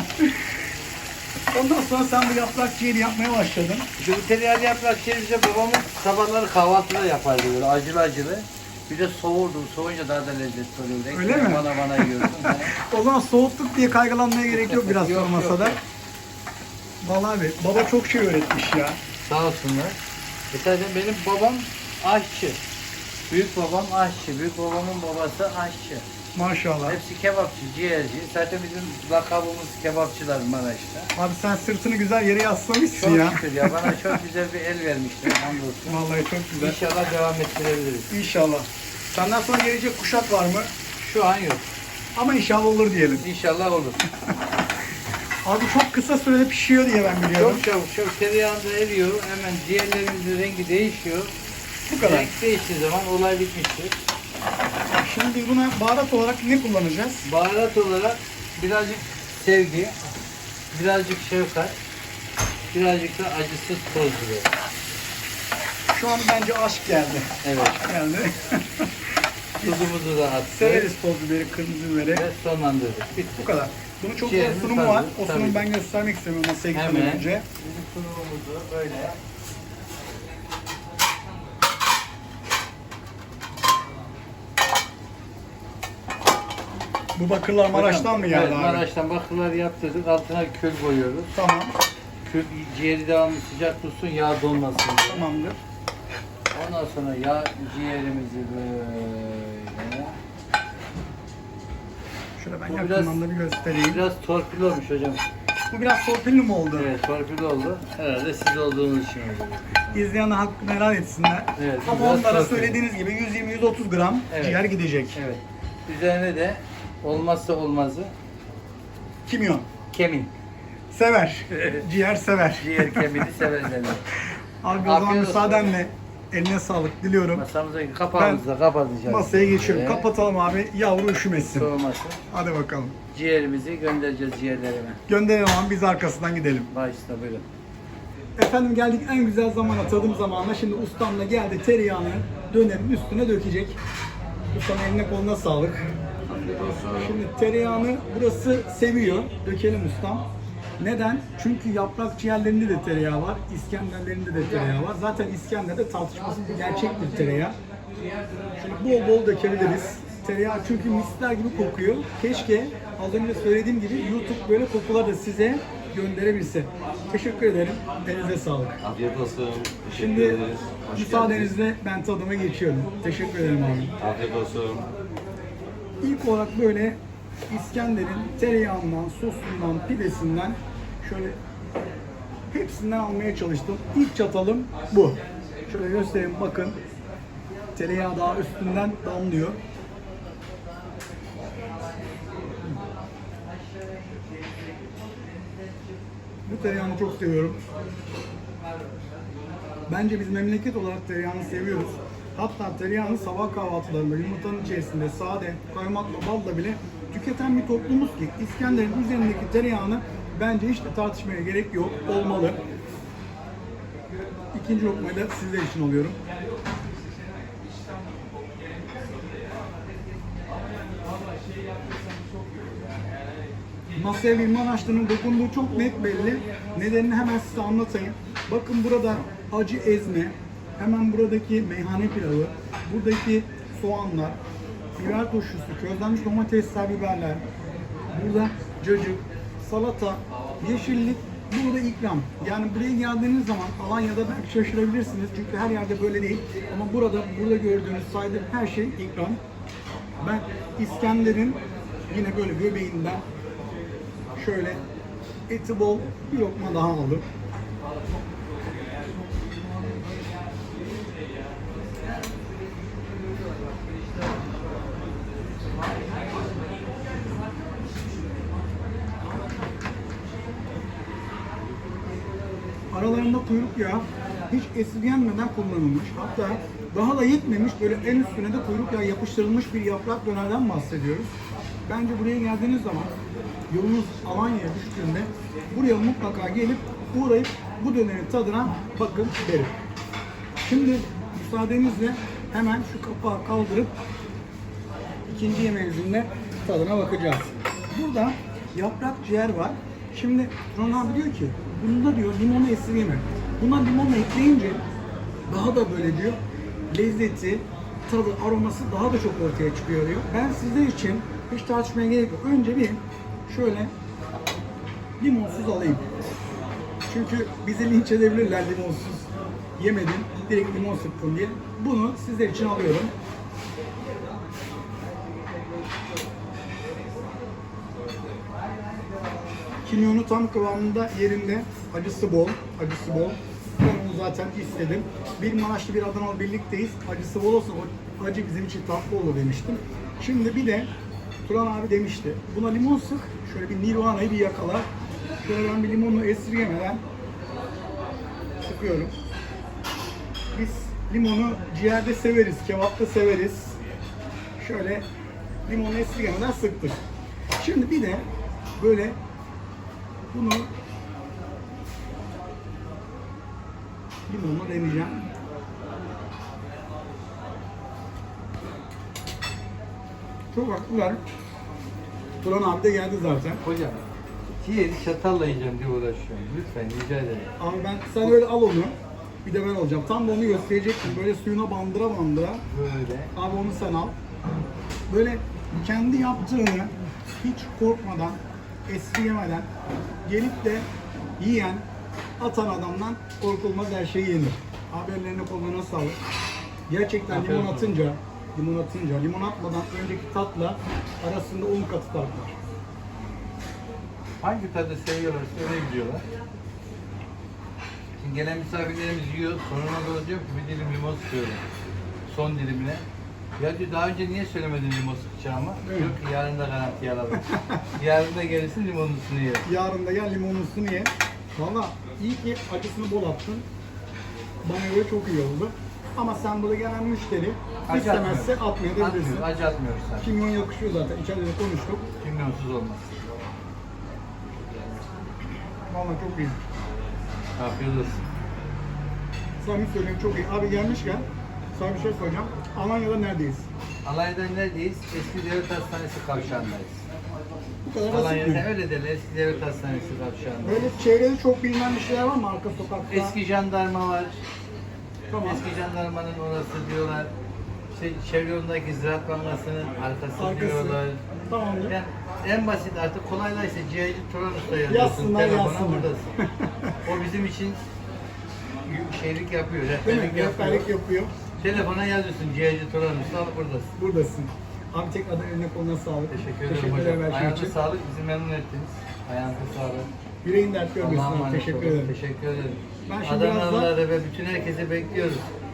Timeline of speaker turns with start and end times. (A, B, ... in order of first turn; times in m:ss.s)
0:01.5-0:03.9 A
0:04.0-0:12.8 B
0:11.1-0:15.8 A
0:14.5-0:15.8 B
0:17.0-0:19.0 A
0:19.2-0:20.0 B
0:20.5-0:22.6 B
0:23.3-0:26.0 B
0:26.3-0:27.0 A
0:26.8-0:31.1 B
0:31.2-0:34.2 A
0:32.9-0:38.1 B
0:35.9-0:36.8 A
0:38.1-0:40.7 A
0:41.0-0:41.7 B
0:42.1-0:43.2 A
0:43.1-0:44.0 B
0:45.4-0:47.6 A
0:47.3-0:51.3 B
0:51.8-0:52.3 A
0:52.0-0:54.0 B
0:54.9-0:57.2 A
0:57.2-1:00.0 B
1:00.7-1:01.8 B
1:02.7-1:04.5 B
1:05.9-1:08.9 A
1:07.4-1:07.8 B
1:09.6-1:09.9 A
1:09.6-1:10.9 B
1:10.5-1:12.3 A
1:12.1-1:13.6 B
1:13.4-1:17.4 A
1:14.2-1:15.7 B
1:16.7-1:19.2 B
1:27.2-1:28.8 A
1:27.7-1:31.3 B
1:31.3-1:31.7 A
1:32.2-1:35.3 B
1:35.1-1:35.6 A
1:36.5-1:40.2 B
1:42.4-1:44.0 A
1:42.7-1:43.2 B
1:43.9-1:45.2 B
1:45.7-1:46.9 A
1:46.7-1:50.1 B
1:49.9-1:55.2 A
1:51.6-1:52.8 B
1:54.3-1:54.6 B
1:55.1-1:58.1 B
1:59.2-1:59.6 A
1:59.9-2:00.3 B
2:00.9-2:03.2 A
2:01.5-2:01.8 B
2:02.6-2:04.1 B
2:04.6-2:07.4 A
2:04.7-2:05.8 B
2:07.3-2:10.1 B
2:08.2-2:08.4 A
2:09.1-2:11.7 A
2:11.4-2:12.2 B
2:12.3-2:12.9 A
2:13.1-2:15.0 B
2:15.1-2:16.7 A
2:16.7-2:17.4 B
2:18.4-2:23.8 A
2:24.5-2:30.2 A
2:26.6-2:26.9 C
2:30.8-2:37.6 A
2:38.6-2:48.8 A
2:48.8-2:51.5 C
2:49.9-2:50.4 A
2:50.9-2:53.9 A
2:54.0-2:54.9 C
2:56.0-2:57.0 A
2:57.5-3:01.4 A
3:02.5-3:06.8 A
3:07.8-3:09.6 A
3:16.4-3:17.6 A
3:19.9-3:32.6 A
3:34.5-3:36.2 A
3:43.9-3:54.4 A
3:55.0-3:57.4 A
3:58.1-4:09.4 A
4:10.2-4:13.2 A
4:14.4-4:14.8 A
4:15.5-4:17.2 A
4:32.9-4:41.3 A
4:41.9-4:43.1 A
4:43.7-4:49.7 A
4:50.6-4:53.9 A
4:55.3-5:04.8 A
5:05.5-5:06.4 A
5:06.9-5:13.9 A
5:15.2-5:16.0 A
5:17.1-5:23.1 A
5:29.8-5:40.9 A
5:41.4-5:44.9 A
5:45.4-5:47.0 A
5:48.6-5:49.1 A
5:50.5-5:53.8 A
5:54.6-5:55.0 A
5:55.6-5:57.0 A
5:57.6-5:58.2 A
5:58.8-5:59.2 A
6:00.3-6:00.7 A
6:04.3-6:05.3 A
6:10.5-6:11.2 A
6:12.4-6:13.6 A
6:13.6-6:14.0 B
6:14.6-6:17.5 B
6:17.6-6:22.6 A
6:22.7-6:23.3 B
6:23.4-6:24.1 A
6:25.1-6:29.7 A
6:30.2-6:30.9 A
6:31.4-6:31.8 A
6:32.4-6:36.2 A
6:36.9-6:42.6 A
6:37.3-6:38.0 B
6:44.4-6:46.2 B
6:48.2-6:51.6 B
6:52.3-6:53.0 B
6:53.6-6:59.7 B
6:55.8-6:56.2 A
6:57.3-6:57.8 A
6:59.6-7:03.6 A
7:04.6-7:09.5 A
7:07.9-7:10.3 B
7:10.2-7:12.0 A
7:12.2-7:13.2 B
7:14.5-7:15.0 B
7:15.9-7:16.6 A
7:17.6-7:18.2 B
7:19.6-7:23.7 A
7:24.0-7:27.0 B
7:27.8-7:28.6 A
7:28.1-7:31.0 B
7:30.6-7:33.4 A
7:33.1-7:34.4 B
7:35.3-7:35.6 A
7:35.4-7:37.3 B
7:37.9-7:41.2 B
7:40.4-7:42.0 A
7:41.8-7:46.3 B
7:44.8-7:47.0 A
7:47.0-7:47.8 B
7:48.8-7:50.9 B
7:50.0-7:51.3 A
7:51.6-7:53.9 B
7:54.0-7:57.7 A
7:56.3-8:00.1 B
8:00.4-8:02.1 A
8:01.0-8:05.4 B
8:03.1-8:03.9 A